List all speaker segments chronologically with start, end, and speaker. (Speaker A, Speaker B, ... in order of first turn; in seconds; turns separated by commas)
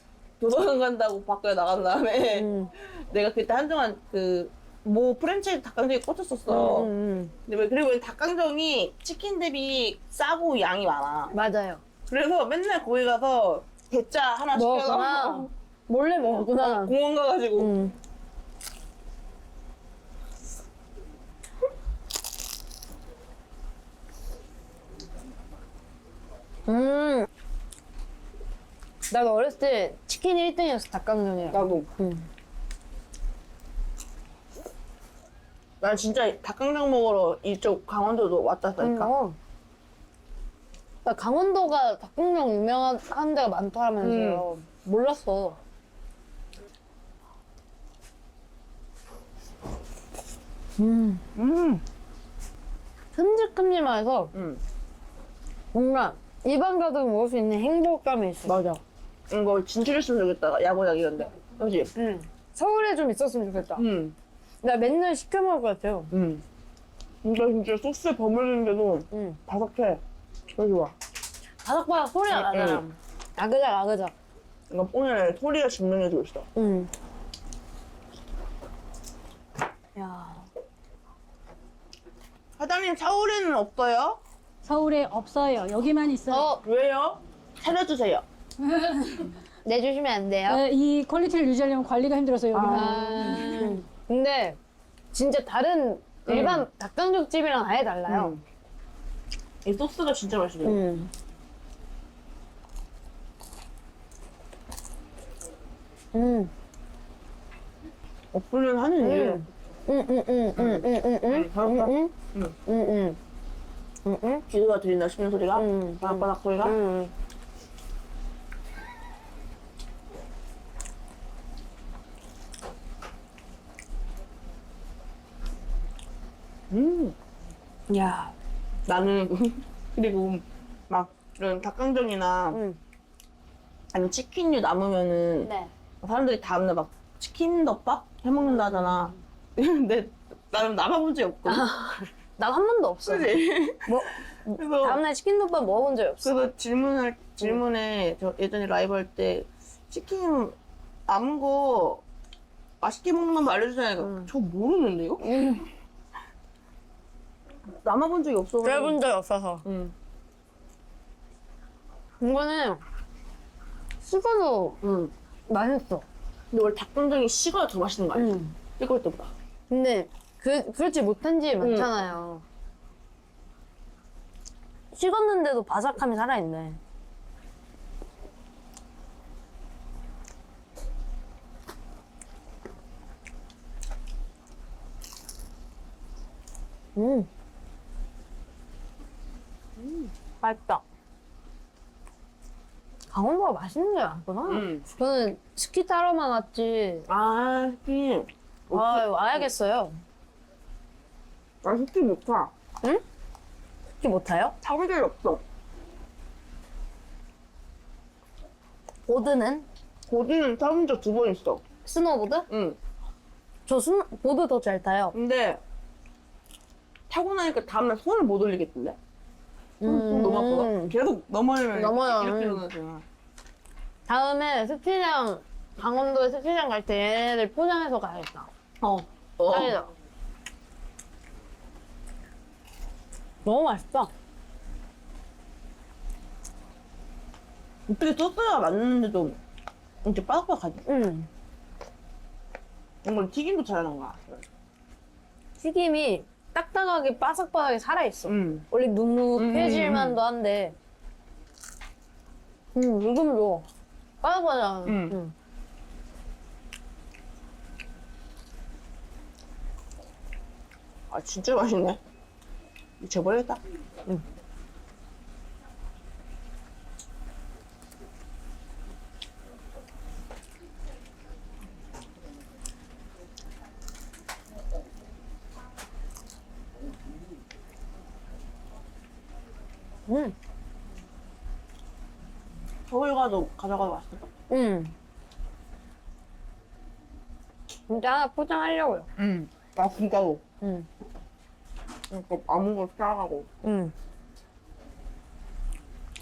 Speaker A: 0.4-6.9, Speaker B: 2.3-2.7, Speaker B: 6.5-7.3, Speaker A: 7.5-11.3, Speaker B: 11.3-11.8, Speaker A: 12.1-15.5, Speaker B: 14.5-16.9, Speaker A: 16.3-17.7, Speaker B: 17.6-17.9, Speaker B: 26.6-27.3, Speaker B: 29.1-32.3, Speaker A: 31.5-31.9, Speaker A: 35.8-39.1, Speaker B: 38.8-39.4, Speaker B: 41.0-45.6, Speaker A: 44.0-44.5, Speaker B: 50.8-51.2, Speaker A: 51.3-51.8, Speaker B: 53.1-54.3, Speaker A: 54.3-54.6, Speaker B: 55.7-58.8, Speaker A: 58.5-61.9, Speaker B: 61.9-63.8, Speaker A: 63.8-64.2, Speaker B: 64.6-66.1, Speaker A: 66.1-66.4, Speaker A: 67.2-70.0, Speaker B: 69.1-69.4, Speaker A: 70.5-70.9, Speaker B: 71.6-74.1, Speaker A: 72.3-72.8, Speaker A: 74.7-76.5, Speaker B: 76.5-76.9, Speaker B: 79.9-80.5, Speaker A: 82.6-84.2, Speaker C: 84.6-86.5, Speaker A: 86.3-88.2, Speaker C: 88.7-89.3, Speaker B: 89.6-90.6, Speaker C: 90.5-93.8, Speaker A: 92.5-93.8, Speaker B: 92.6-94.6, Speaker B: 95.1-98.4, Speaker A: 96.3-96.7, Speaker A: 98.1-98.4, Speaker A: 99.6-100.8, Speaker B: 100.6-101.1, Speaker B: 106.1-106.5, Speaker A: 108.3-109.5, Speaker B: 109.0-112.1, Speaker A: 110.6-112.5, Speaker B: 112.6-113.2, Speaker B: 114.0-114.4, Speaker A: 114.5-116.8, Speaker B: 115.5-117.1, Speaker A: 126.7-127.1, Speaker B: 127.9-128.3, Speaker A: 128.8-132.6, Speaker B: 132.5-132.8, Speaker A: 133.9-141.7, Speaker B: 135.4-135.7, Speaker B: 141.4-143.3, Speaker A: 143.0-145.0, Speaker B: 143.8-146.3, Speaker A: 146.2-150.6, Speaker A: 151.1-152.0, Speaker A: 152.8-155.6, Speaker B: 154.0-154.3, Speaker B: 155.2-155.7, Speaker A: 157.8-159.0, Speaker B: 158.6-159.6, Speaker A: 159.6-159.9, Speaker B: 162.2-162.8, Speaker B: 164.0-166.1, Speaker A: 166.5-169.3, Speaker B: 168.1-168.6, Speaker B: 169.7-172.4, Speaker A: 171.6-171.9, Speaker B: 174.9-176.8, Speaker B: 186.9-187.3, Speaker A: 189.8-190.1, Speaker B: 190.4-190.8, Speaker B: 193.1-197.1, Speaker A: 194.4-194.9, Speaker A: 197.1-199.5, Speaker B: 198.7-200.0, Speaker A: 201.6-202.5, Speaker B: 204.0-204.6, Speaker A: 204.6-205.4, Speaker B: 209.1-209.7, Speaker A: 210.1-211.6, Speaker B: 211.8-212.5, Speaker A: 212.5-212.8, Speaker B: 213.7-215.1, Speaker A: 215.1-215.6, Speaker A: 217.1-219.0, Speaker B: 219.8-220.9, Speaker A: 219.8-223.1, Speaker B: 221.7-222.6, Speaker B: 224.1-228.5, Speaker A: 228.8-229.8, Speaker B: 229.5-229.9, Speaker B: 233.4-234.1, Speaker A: 237.9-239.4, Speaker A: 240.0-240.8, Speaker B: 240.8-241.3, Speaker A: 243.0-244.4, Speaker B: 245.6-250.8, Speaker A: 248.3-248.7, Speaker A: 249.3-250.2, Speaker B: 252.7-253.7, Speaker B: 254.2-255.3, Speaker A: 254.8-255.2, Speaker A: 261.1-262.0, Speaker A: 263.0-263.6, Speaker B: 280.1-280.3, Speaker A: 282.9-284.2, Speaker B: 284.5-284.9, Speaker B: 287.9-289.1, Speaker A: 289.2-290.4, Speaker B: 290.6-290.9, Speaker A: 292.1-293.5, Speaker B: 293.6-293.9